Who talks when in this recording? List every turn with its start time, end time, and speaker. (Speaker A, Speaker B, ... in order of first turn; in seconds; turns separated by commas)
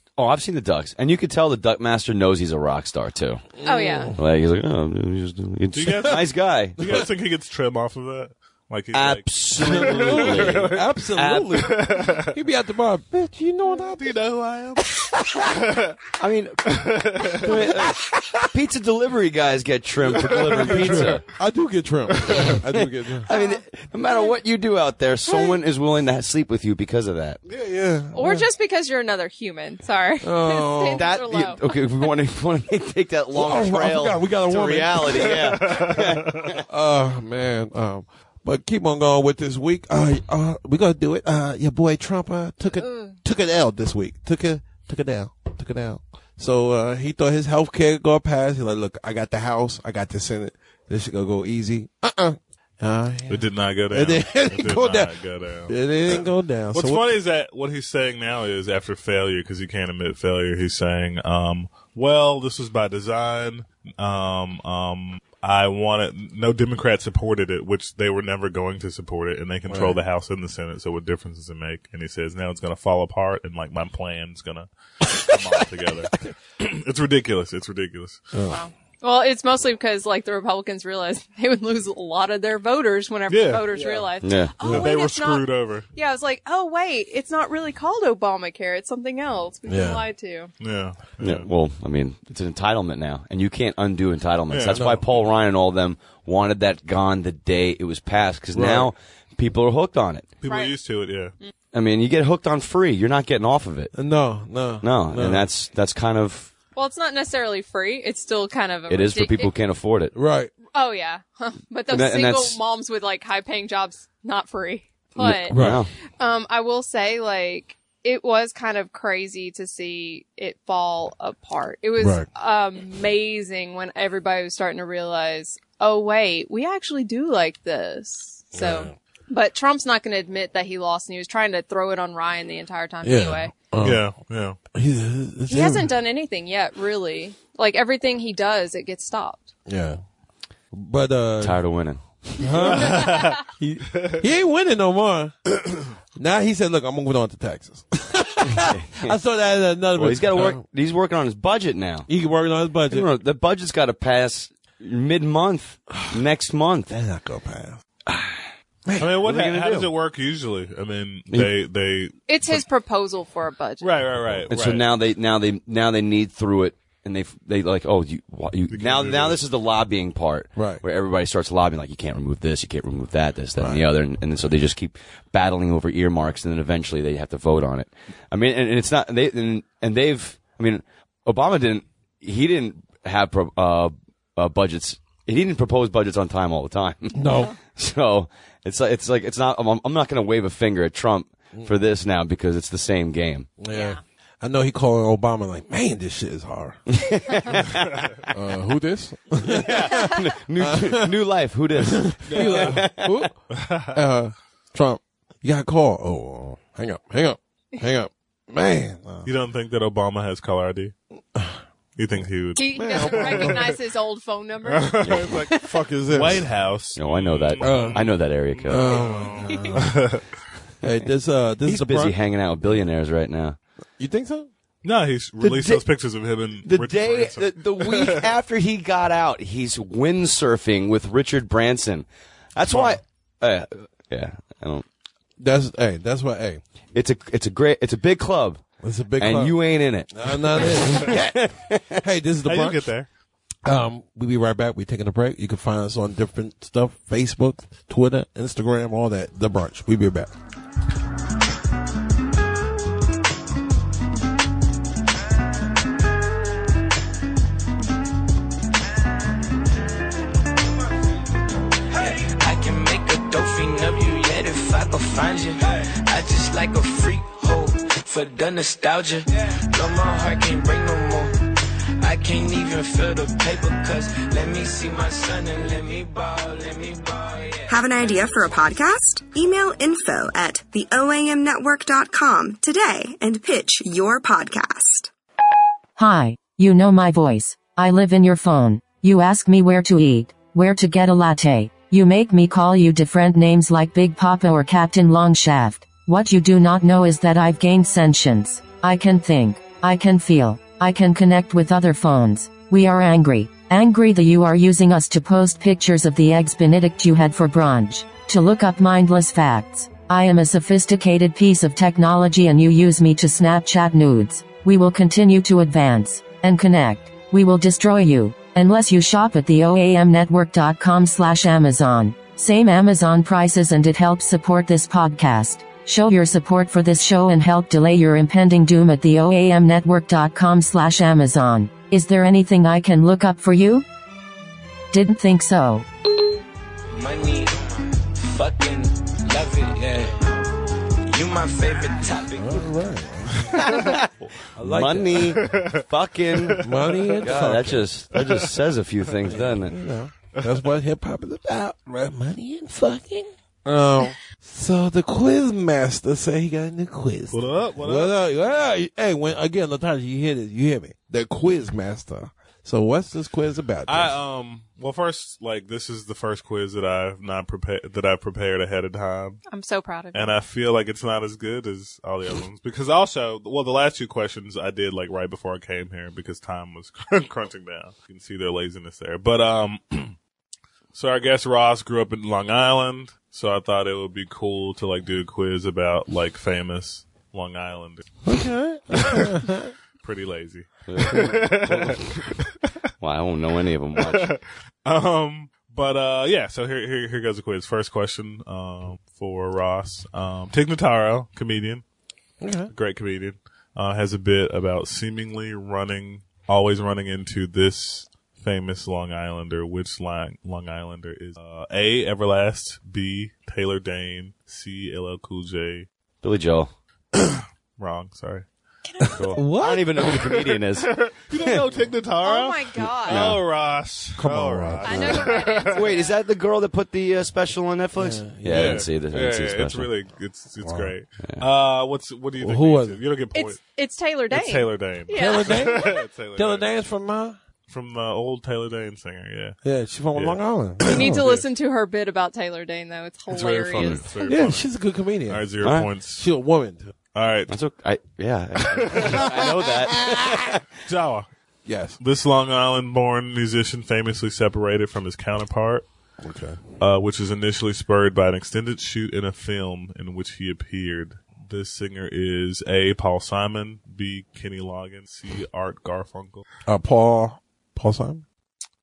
Speaker A: 0.2-3.5, Speaker B: 3.6-4.2, Speaker C: 3.6-4.2, Speaker A: 4.2-6.8, Speaker D: 5.7-10.9, Speaker B: 6.8-7.1, Speaker A: 8.9-11.8, Speaker B: 9.6-14.1, Speaker D: 11.5-12.3, Speaker D: 14.0-14.9, Speaker B: 14.8-15.6, Speaker D: 15.5-16.0, Speaker A: 16.2-18.0, Speaker D: 16.7-17.6, Speaker B: 17.4-18.5, Speaker A: 18.5-21.3, Speaker D: 20.1-21.2, Speaker B: 20.4-23.3, Speaker D: 22.2-22.6, Speaker A: 23.2-27.4, Speaker C: 23.3-24.3, Speaker C: 25.3-25.6, Speaker B: 27.5-28.5, Speaker C: 28.1-31.8, Speaker B: 30.2-31.1, Speaker A: 30.9-36.6, Speaker B: 33.3-35.8, Speaker D: 35.1-36.5, Speaker B: 36.6-55.1, Speaker C: 42.8-43.2, Speaker D: 53.3-78.2, Speaker B: 55.7-57.1, Speaker B: 69.7-70.0, Speaker B: 78.3-78.6, Speaker C: 78.5-90.5, Speaker D: 83.3-84.1, Speaker A: 84.2-84.5, Speaker B: 84.6-84.9, Speaker D: 84.6-85.9, Speaker B: 89.7-90.0, Speaker D: 90.6-91.5, Speaker A: 91.2-100.3, Speaker D: 94.5-95.0, Speaker B: 94.7-95.1, Speaker B: 98.5-98.9, Speaker D: 100.4-101.3, Speaker C: 100.5-100.8, Speaker A: 101.7-103.9, Speaker B: 103.9-105.5, Speaker A: 104.8-106.5, Speaker C: 106.8-109.5, Speaker A: 108.9-110.1, Speaker B: 110.1-110.5, Speaker C: 110.7-115.6, Speaker A: 111.9-112.6, Speaker A: 115.2-115.9, Speaker B: 115.5-115.9, Speaker C: 116.2-133.5, Speaker B: 122.0-122.3, Speaker B: 128.5-128.9, Speaker B: 133.0-134.1, Speaker D: 133.8-134.6, Speaker B: 134.7-135.9, Speaker C: 135.5-139.5, Speaker B: 139.7-140.0, Speaker B: 140.7-141.6, Speaker A: 141.4-142.6, Speaker B: 142.4-145.6, Speaker D: 142.6-143.4, Speaker C: 143.1-143.3, Speaker D: 143.9-144.2, Speaker B: 146.2-150.6, Speaker A: 148.5-149.2, Speaker A: 149.9-152.1, Speaker B: 152.1-153.1, Speaker A: 152.9-156.9, Speaker B: 156.9-157.8, Speaker A: 158.1-158.5, Speaker B: 158.9-159.3, Speaker D: 159.0-162.6, Speaker A: 159.2-159.9, Speaker C: 162.3-163.9, Speaker D: 163.8-164.9, Speaker A: 164.5-193.5, Speaker D: 168.7-169.4, Speaker B: 170.6-170.8, Speaker B: 173.6-173.9, Speaker B: 187.2-187.6, Speaker B: 193.6-196.8, Speaker C: 193.7-194.0, Speaker A: 196.9-198.3, Speaker B: 198.3-201.2, Speaker A: 199.4-203.3, Speaker B: 201.8-203.4, Speaker D: 202.3-202.8, Speaker D: 203.5-204.0, Speaker B: 203.9-209.3, Speaker D: 209.2-210.9, Speaker D: 212.0-213.8, Speaker C: 212.6-215.7, Speaker B: 212.8-213.7, Speaker D: 214.7-220.3, Speaker B: 215.5-216.5, Speaker A: 217.0-219.1, Speaker B: 217.6-220.1, Speaker B: 220.8-222.2, Speaker A: 221.7-223.6, Speaker B: 224.0-224.5, Speaker D: 224.8-228.3, Speaker A: 225.4-225.8, Speaker A: 226.6-234.8, Speaker D: 232.7-233.0, Speaker B: 235.4-236.6, Speaker A: 236.9-238.6, Speaker B: 238.8-239.6, Speaker A: 239.2-242.0, Speaker B: 240.1-242.9, Speaker D: 242.4-243.1, Speaker B: 243.7-250.3, Speaker E: 261.9-271.4, Speaker E: 272.0-277.7, Speaker F: 277.7-285.1, Speaker G: 286.0-333.9, Speaker G: 334.9-335.9, Speaker E: 336.9-340.3, Speaker E: 341.1-342.7, Speaker B: 342.4-343.8, Speaker A: 343.6-344.1, Speaker B: 344.6-345.5, Speaker A: 344.6-346.7, Speaker D: 345.2-347.4, Speaker B: 346.6-348.0, Speaker A: 347.2-349.8, Speaker D: 348.1-348.5, Speaker B: 349.2-364.2, Speaker D: 350.3-350.6, Speaker D: 357.3-358.2, Speaker D: 363.9-369.4, Speaker C: 369.5-370.4, Speaker D: 370.1-380.2, Speaker D: 380.9-388.1, Speaker B: 388.2-389.7, Speaker D: 389.0-389.4, Speaker D: 390.0-392.5, Speaker A: 390.9-392.3, Speaker A: 393.0-394.3, Speaker D: 394.0-401.8, Speaker B: 402.4-402.7, Speaker D: 402.7-415.9, Speaker A: 416.2-416.7, Speaker D: 417.2-418.5, Speaker C: 418.8-419.3, Speaker A: 419.1-421.7, Speaker B: 419.3-420.1, Speaker D: 420.0-425.9, Speaker C: 422.2-423.3, Speaker A: 423.1-423.4, Speaker B: 424.2-425.4, Speaker C: 424.8-426.1, Speaker A: 425.7-429.9, Speaker B: 428.0-428.9, Speaker D: 428.5-433.6, Speaker B: 430.6-430.9, Speaker B: 432.4-433.0, Speaker C: 433.3-436.0, Speaker D: 434.3-436.7, Speaker B: 435.1-437.4, Speaker D: 437.7-439.6, Speaker B: 439.6-441.3, Speaker D: 440.1-441.4, Speaker C: 440.8-444.2, Speaker D: 443.3-444.7, Speaker A: 443.8-444.0, Speaker B: 444.2-445.5, Speaker D: 445.3-446.3, Speaker A: 445.6-445.9, Speaker B: 446.1-446.9, Speaker D: 447.1-447.5, Speaker A: 447.5-450.7, Speaker D: 448.7-449.2, Speaker B: 448.9-450.5, Speaker D: 450.8-451.3, Speaker B: 451.6-452.0, Speaker D: 452.0-455.9, Speaker B: 456.2-456.6, Speaker D: 456.8-466.4, Speaker B: 466.7-468.2